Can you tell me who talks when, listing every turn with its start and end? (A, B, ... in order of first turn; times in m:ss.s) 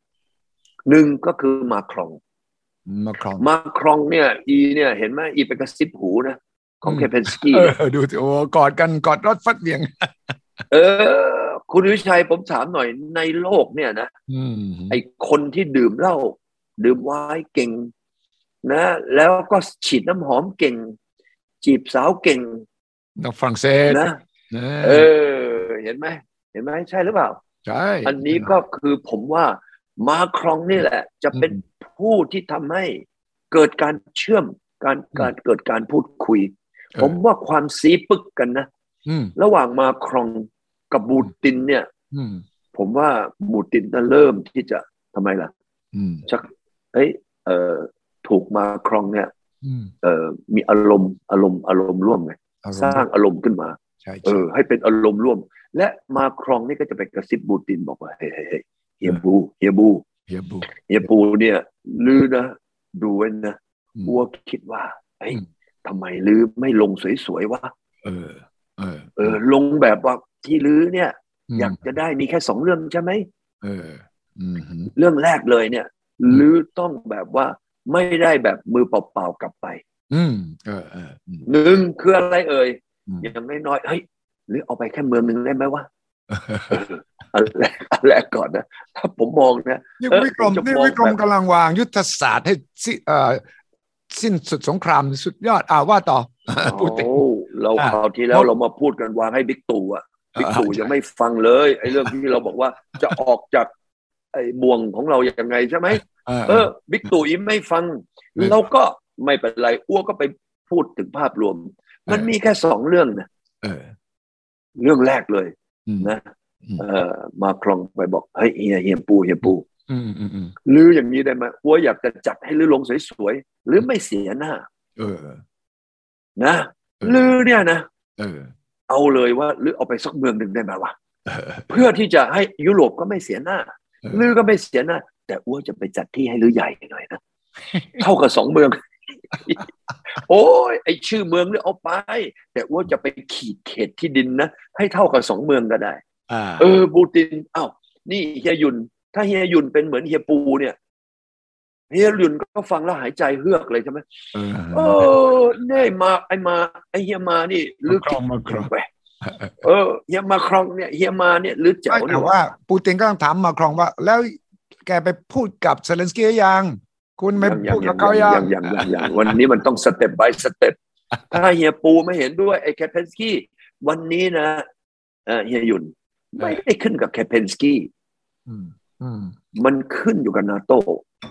0:00.8-0:02.2 A
0:02.8-0:03.5 B
0:03.4-0:07.7 A
0:06.8-0:10.3 B
0:10.7-0:14.1 A
0:14.3-0:15.0 B
0:14.9-0:17.9 A
0:18.6-0:20.9 A
0:21.6-0:22.6 A
0:23.2-0:25.1 B
0:23.9-0:24.2 A
0:24.8-0:27.4 A
0:27.6-0:28.5 B
0:28.0-0:38.7 A
0:31.3-0:31.6 B
0:39.0-0:39.3 B
0:39.4-0:41.9 A
0:42.1-0:42.4 B
0:42.7-0:45.5 A
0:45.9-0:46.2 B
0:46.2-0:49.3 A
0:49.6-0:49.9 B
0:50.0-1:00.0 A
0:52.6-0:53.1 B
0:54.0-0:54.4 B
1:00.3-1:00.7 B
1:00.7-1:07.7 A
1:08.0-1:09.4 B
1:09.2-1:13.3 A
1:11.5-1:11.8 B
1:13.6-1:14.9 B
1:14.9-1:19.8 A
1:20.1-1:21.5 B
1:21.4-1:25.9 A
1:26.3-1:26.8 B
1:26.7-1:31.2 A
1:30.0-1:33.4 B
1:34.1-1:37.2 B
1:36.6-1:43.7 A
1:37.8-1:38.5 B
1:40.4-1:40.9 B
1:44.3-1:53.3 A
1:45.9-1:46.7 B
1:53.6-1:53.9 B
1:54.8-1:59.6 A
1:55.8-1:56.1 B
1:59.4-2:00.6 B
2:00.6-2:04.6 A
2:05.0-2:05.4 B
2:06.4-2:07.8 A
2:07.0-2:07.3 B
2:08.2-2:08.5 B
2:08.9-2:10.9 A
2:11.2-2:11.8 B
2:11.7-2:17.2 A
2:17.7-2:18.0 B
2:18.0-2:18.8 A
2:19.3-2:19.6 A
2:20.1-2:26.0 A
2:26.3-2:26.7 B
2:26.6-2:30.8 A
2:31.9-2:34.0 A
2:34.3-2:35.1 B
2:34.7-2:38.9 A
2:37.9-2:38.7 B
2:39.2-2:39.6 B
2:39.6-2:42.3 A
2:41.9-2:49.4 B
2:47.4-2:50.8 A
2:51.3-2:54.6 A
2:55.3-2:57.9 A
2:58.5-2:59.4 B
2:59.5-3:01.0 A